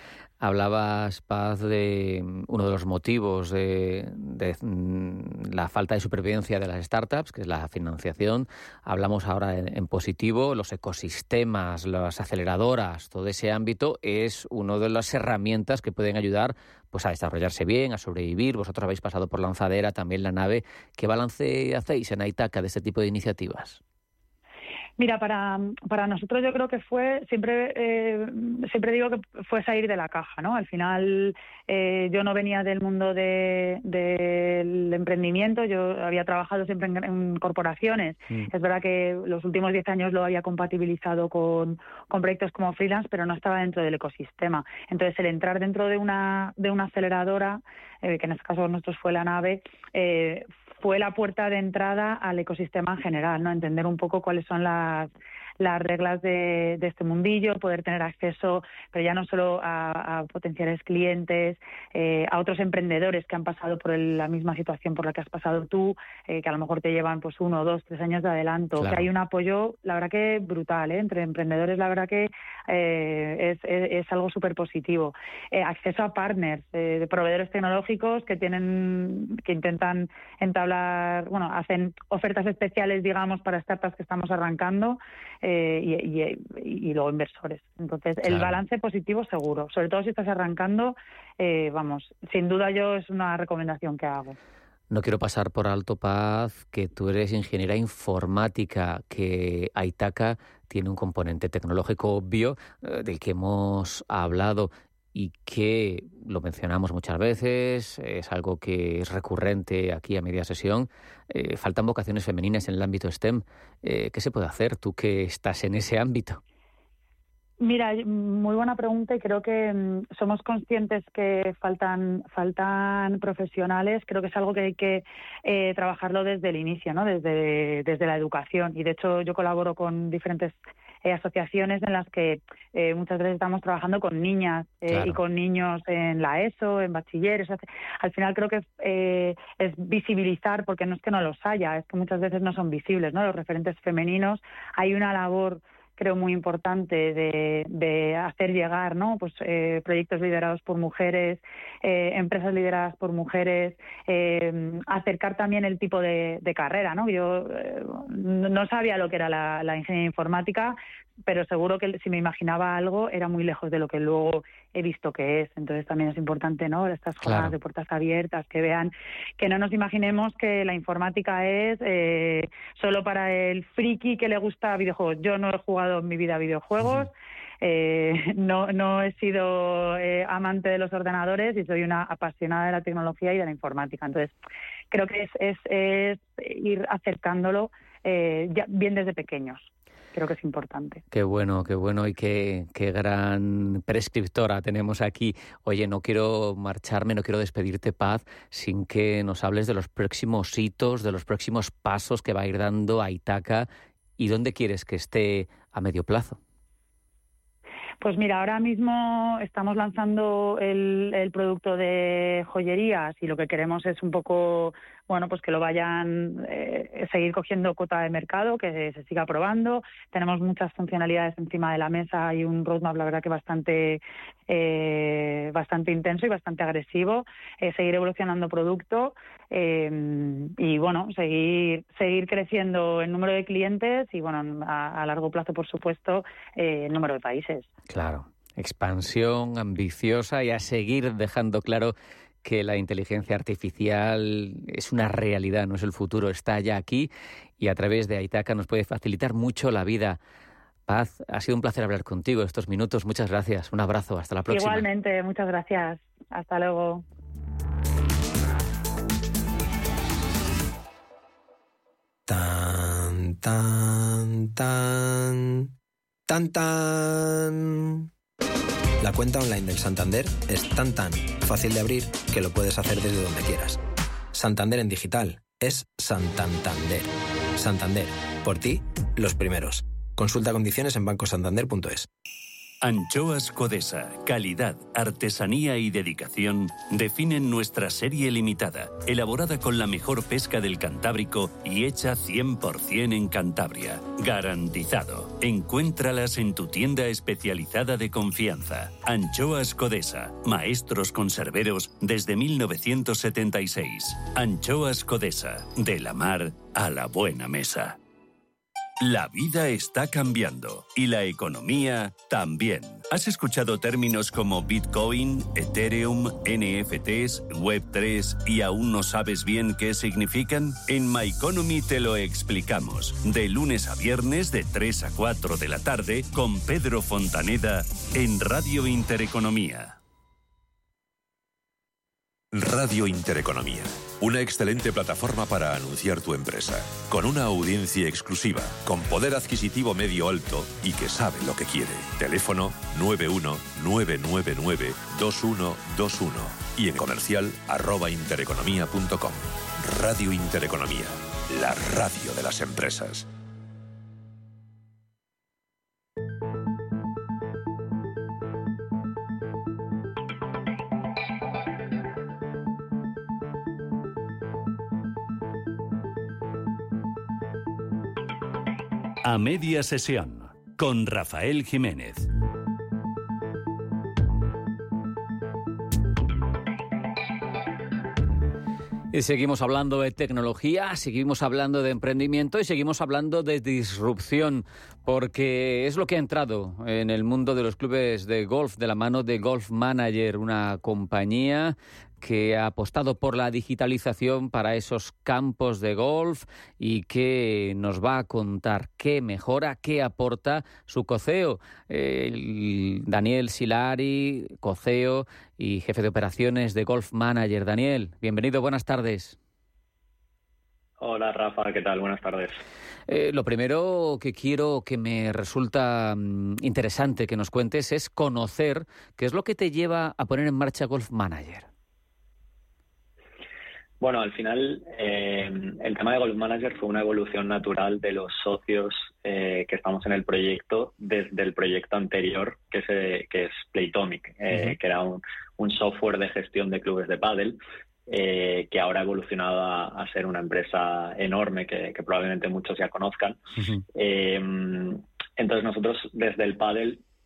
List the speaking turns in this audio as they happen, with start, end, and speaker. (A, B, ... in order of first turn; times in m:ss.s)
0:00.4-0:23.8 A
0:25.0-1:34.4 B
1:08.8-1:09.1 A
1:28.2-1:28.6 A
1:34.9-1:56.4 A
1:57.6-3:04.3 B
2:14.9-2:15.2 A
2:47.2-2:47.6 A
2:56.8-2:57.1 A
3:04.9-3:11.0 B
3:11.1-3:26.4 A
3:28.0-3:57.7 B
3:57.9-4:10.2 A
4:10.9-4:14.9 A
4:14.5-4:17.0 B
4:22.3-4:25.7 C
4:26.3-4:28.1 C
4:29.0-4:33.8 C
4:34.3-4:42.1 C
4:42.8-5:08.0 D
5:09.0-5:30.0 D
5:32.5-5:53.3 E
6:09.2-6:12.3 D
6:19.1-6:49.4 A
6:51.0-6:52.6 F
6:53.1-7:01.7 A
7:04.0-7:23.4 F
7:23.6-7:23.8 A
7:24.0-7:27.0 F